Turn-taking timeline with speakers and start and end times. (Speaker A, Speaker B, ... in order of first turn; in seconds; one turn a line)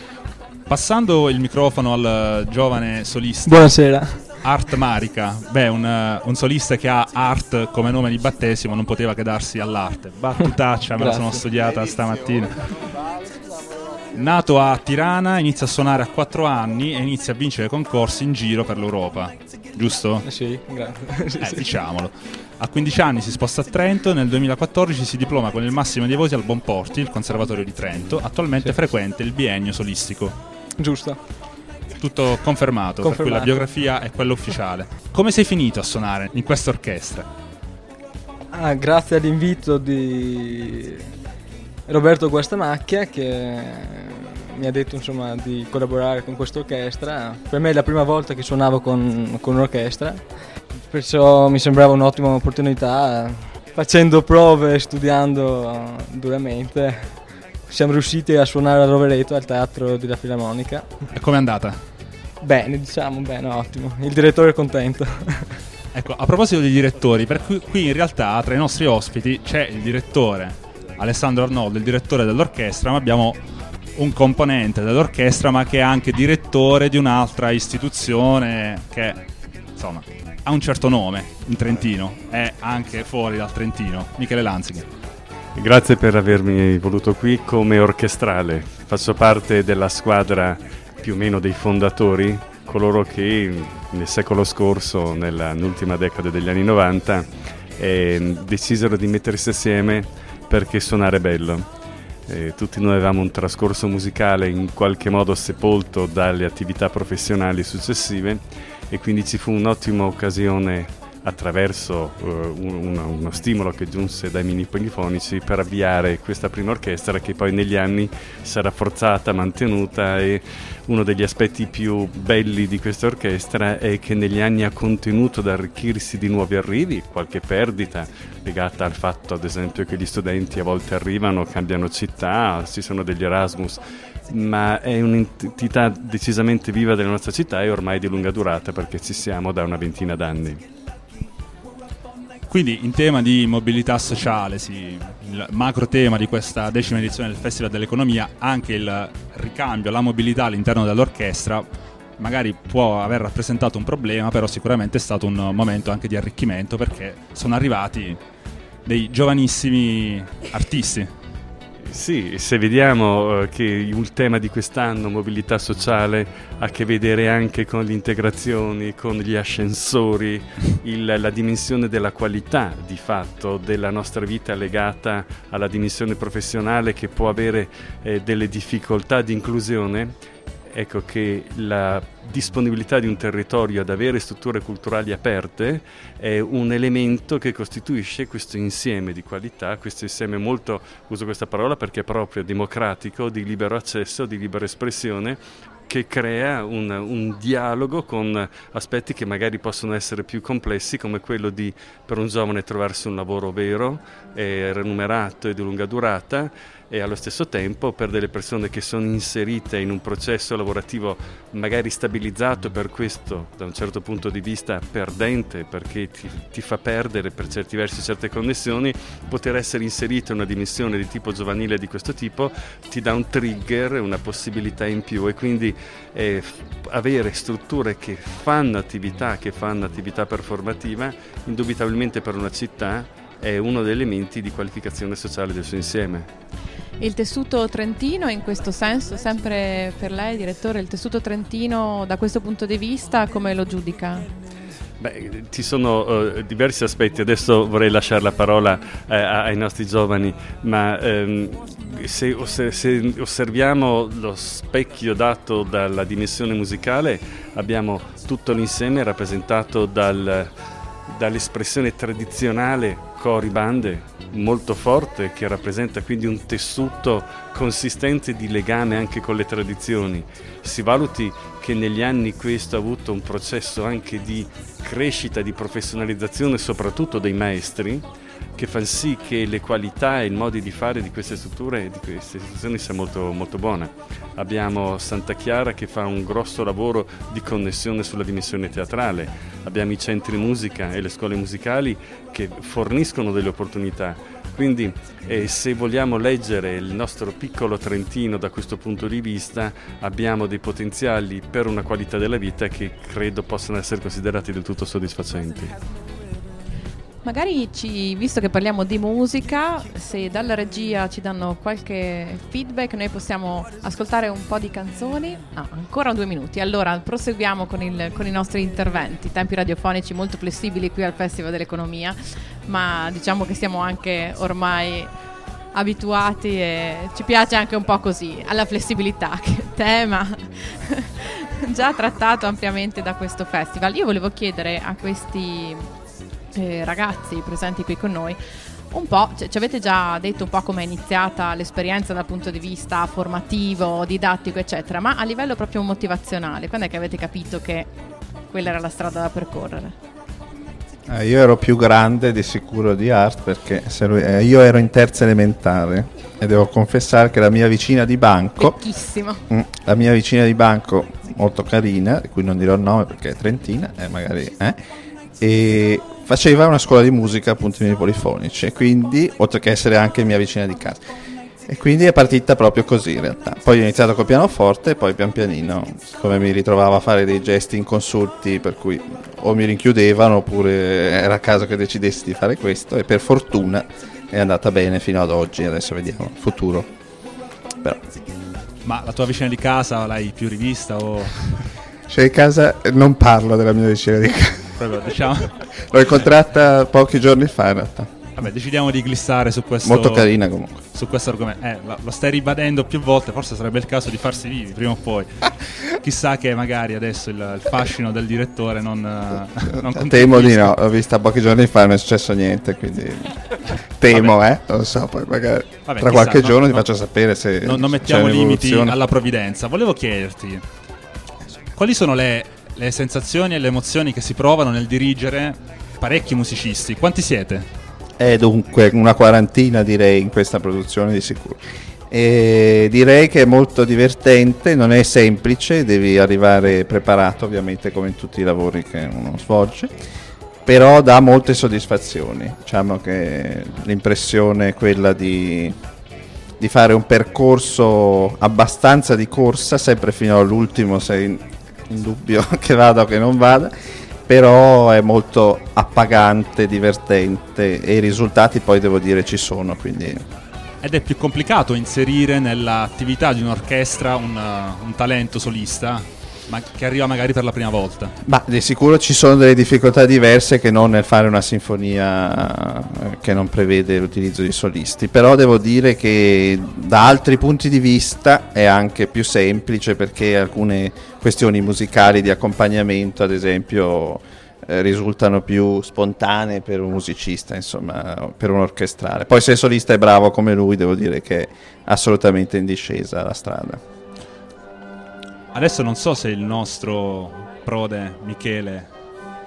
Speaker A: 0.7-3.7
Speaker B: 3.5-4.3
Speaker A: 4.4-12.9
Speaker B: 11.0-11.4
Speaker A: 14.1-20.3
Speaker B: 20.3-21.7
Speaker A: 21.4-30.4
Speaker B: 30.8-31.2
Speaker A: 32.0-37.3
Speaker B: 33.0-33.6
Speaker B: 38.5-41.1
Speaker B: 41.9-61.1
Speaker A: 61.1-61.8
Speaker B: 62.4-65.6
Speaker A: 65.9-73.4
Speaker A: 74.0-79.2
Speaker A: 79.8-84.9
Speaker C: 85.5-101.7
Speaker C: 102.3-140.6
Speaker A: 142.5-158.2
Speaker A: 158.8-161.1
Speaker C: 161.8-236.3
Speaker D: 237.0-244.3
Speaker C: 245.0-278.1
Speaker C: 278.6-305.8
Speaker D: 307.2-325.1
Speaker D: 325.7-335.9
Speaker D: 336.5-338.4
Speaker D: 338.9-347.9
Speaker D: 348.5-350.0
Speaker E: 351.1-358.8
Speaker D: 358.6-359.4
Speaker E: 359.5-364.8
Speaker E: 365.4-371.0
Speaker E: 371.7-386.9
Speaker E: 387.8-388.1
Speaker A: 388.8-391.7
Speaker E: 392.1-394.8
Speaker A: 394.8-395.6
Speaker E: 395.7-398.3
Speaker A: 398.4-400.3
Speaker E: 399.9-400.8
Speaker A: 400.9-410.7
Speaker E: 409.8-413.4
Speaker E: 414.0-419.0
Speaker A: 415.9-416.9
Speaker A: 417.6-420.6
Speaker A: 421.8-427.7
Speaker E: 428.2-440.0
Speaker E: 440.7-445.8
Speaker E: 446.6-453.7
Speaker E: 454.3-460.2
Speaker A: 460.8-468.1
Speaker E: 468.2-493.8
Speaker A: 495.5-498.9